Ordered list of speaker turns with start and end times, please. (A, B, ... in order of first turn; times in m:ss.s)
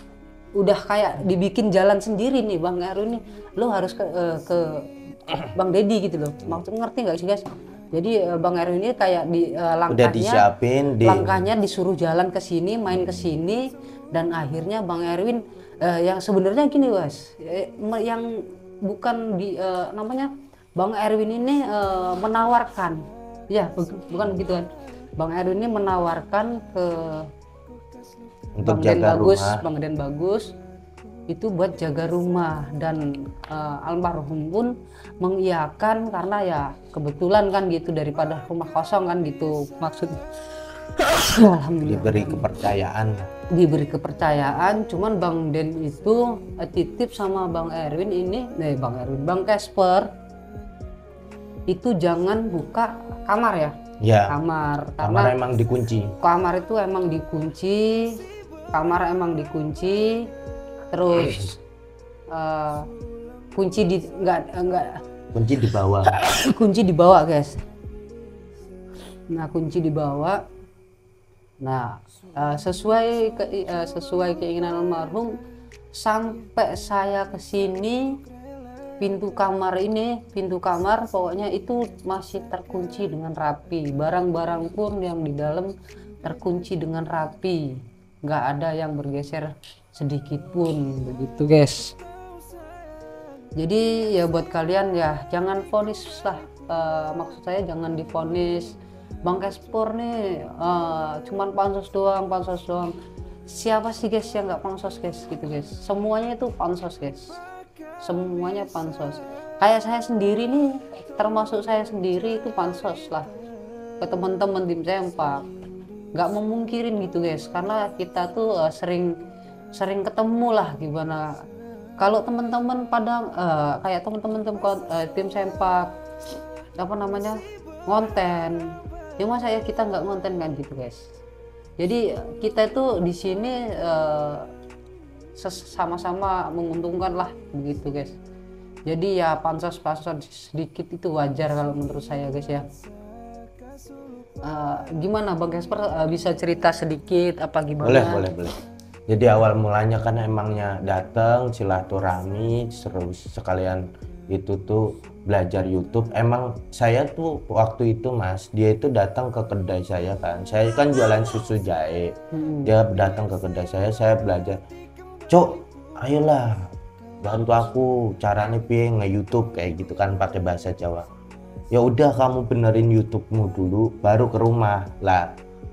0:00.6-0:04.8 A
0:05.5-0:10.4 A
0:09.9-0:11.4 B
0:11.0-0:18.3 A
0:18.8-0:27.3 A
0:28.6-0:29.6 B
0:28.6-0:30.5 A
0:31.3-0:40.2 A
0:40.8-0:42.5 A
0:41.8-0:43.3 B
0:43.5-0:50.1 A
0:51.7-0:53.7 A
0:54.0-0:54.4 B
0:54.3-0:55.3 A
0:55.0-0:56.1 B
0:56.2-0:58.2 A
0:58.7-1:00.3 A
1:00.9-1:01.6 A
1:02.3-1:02.9 A
1:03.5-1:05.0 A
1:05.3-1:06.1 B
1:06.1-1:07.6 A
1:09.3-1:10.4 A
1:11.6-1:15.3 A
1:15.9-1:18.2 A
1:19.0-1:25.7 A
1:26.2-1:31.9 A
1:33.6-1:42.9 A
1:43.5-1:47.4 A
1:48.0-1:53.3 A
1:54.0-1:55.4 A
1:56.1-1:59.1 A
1:59.7-2:01.3 A
2:02.0-2:05.9 A
2:06.8-2:11.1 A
2:11.8-2:14.5 A
2:15.4-2:18.2 A
2:18.9-2:22.6 A
2:24.4-2:28.3 A
2:27.8-2:28.5 B
2:29.1-2:44.6 B
2:42.3-2:42.7 A
2:45.3-2:46.7 B
2:47.2-2:51.1 B
2:51.7-2:55.3 B